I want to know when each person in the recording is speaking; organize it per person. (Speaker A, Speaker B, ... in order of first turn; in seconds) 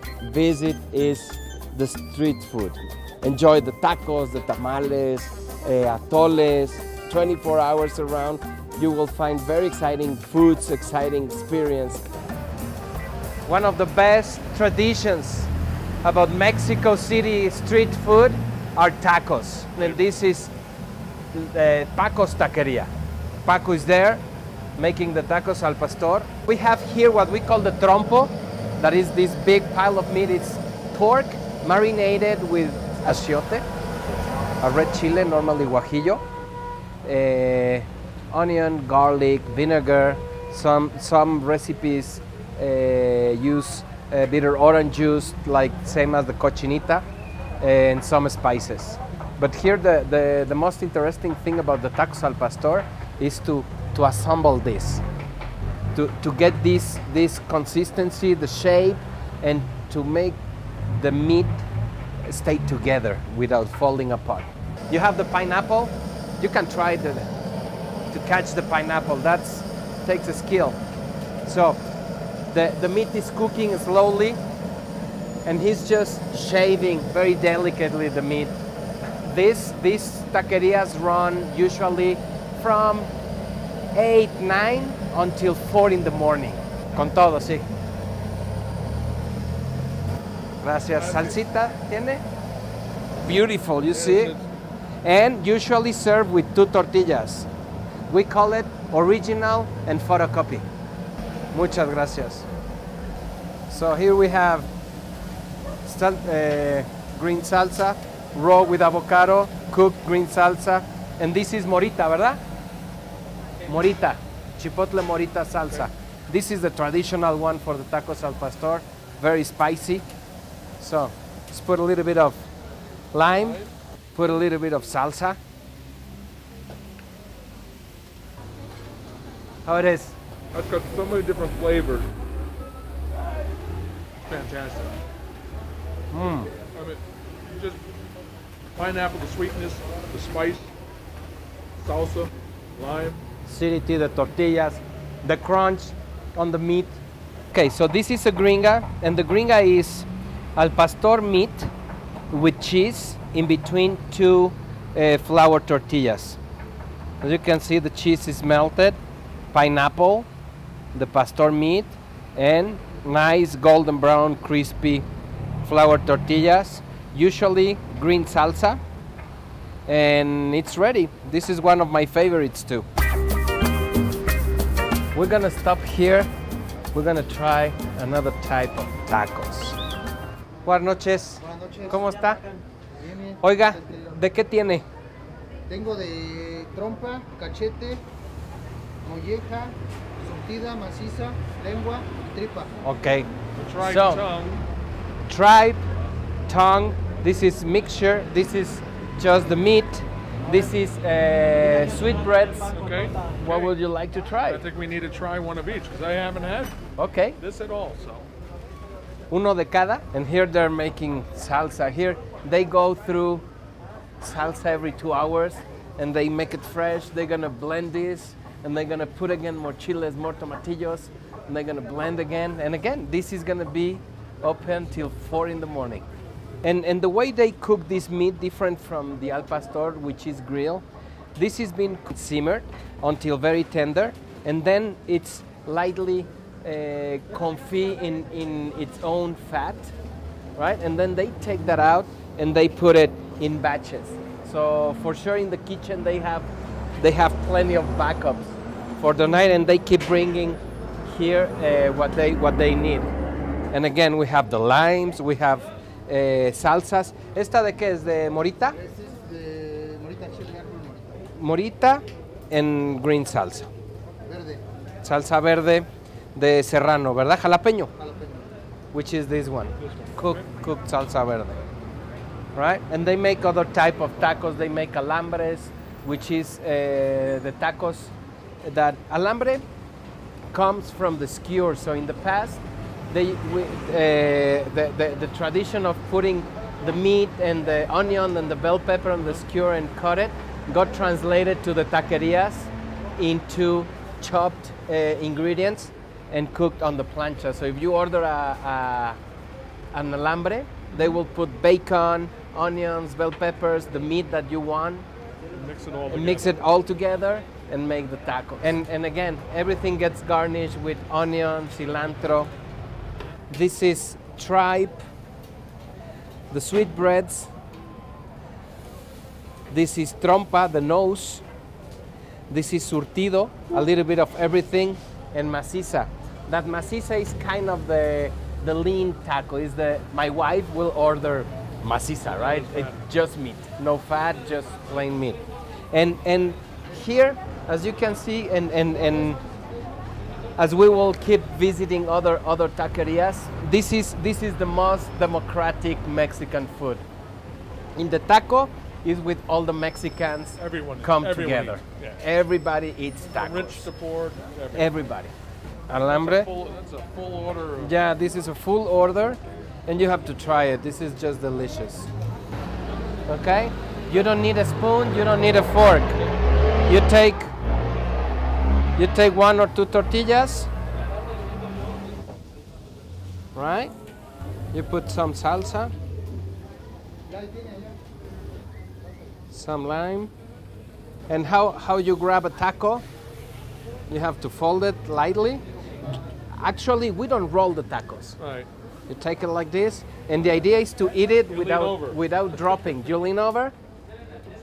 Speaker A: 0.2-12.1, 13.4-15.5, 16.0-20.5, 21.3-22.9, 23.4-24.2, 24.8-33.6, 34.6-36.2, 37.0-47.0, 47.6-55.0, 55.9-61.6, 62.2-67.3, 68.1-70.8, 71.4-71.8, 72.5-74.4, 75.4-78.5, 79.2-83.1, 83.9-87.7, 90.6-92.2, 93.2-94.3, 95.0-97.5, 98.1-100.7, 101.5-102.5, 103.7-104.7, 105.8-112.4, 113.6-120.1, 120.8-122.4, 123.1-125.4, 129.6-130.2, 136.1-136.5, 143.4-147.0, 147.5-151.7, 152.3-156.4, 157.2-159.0, 159.5-160.3, 160.9-165.1, 165.6-168.8, 169.8-172.8, 175.1-176.3, 176.9-179.8, 180.6-182.4, 183.4-184.8, 192.8-194.2, 195.3-195.8, 196.5-202.7, 203.3-204.6, 207.0-207.4, 209.3-213.4, 214.2-226.0, 226.6-239.9, 240.6-253.1, 253.7-258.8, 261.3-263.7, 265.0-267.9, 268.9-271.6, 272.5-279.6, 280.5-299.2, 299.9-305.1, 306.1-312.5, 313.5-315.0, 316.5-317.5, 319.7-321.4, 322.5-335.4, 335.9-339.4, 340.6-347.0, 347.9-353.9, 354.7-355.3, 355.9-356.5, 357.8-362.1, 363.3-366.3, 366.9-367.5, 368.9-370.7, 373.5-373.9, 374.7-375.9, 379.5-380.3, 381.3-383.0, 384.1-385.6, 386.5-388.4, 389.1-393.7
Speaker B: 90.9-91.3, 93.8-94.5, 130.5-132.1, 134.2-135.0, 136.7-137.8, 138.8-140.7, 141.8-143.2, 193.6-194.6, 202.7-203.3, 204.4-206.8, 207.4-208.3, 305.5-306.6, 332.3-333.0, 350.6-352.2, 353.3-354.9, 356.0-357.9, 388.4-388.7, 391.5-392.2
Speaker C: 181.5-181.8, 183.0-183.4, 185.7-188.0, 189.0-192.7, 258.8-261.2, 264.2-264.6, 268.0-268.5, 377.3-377.9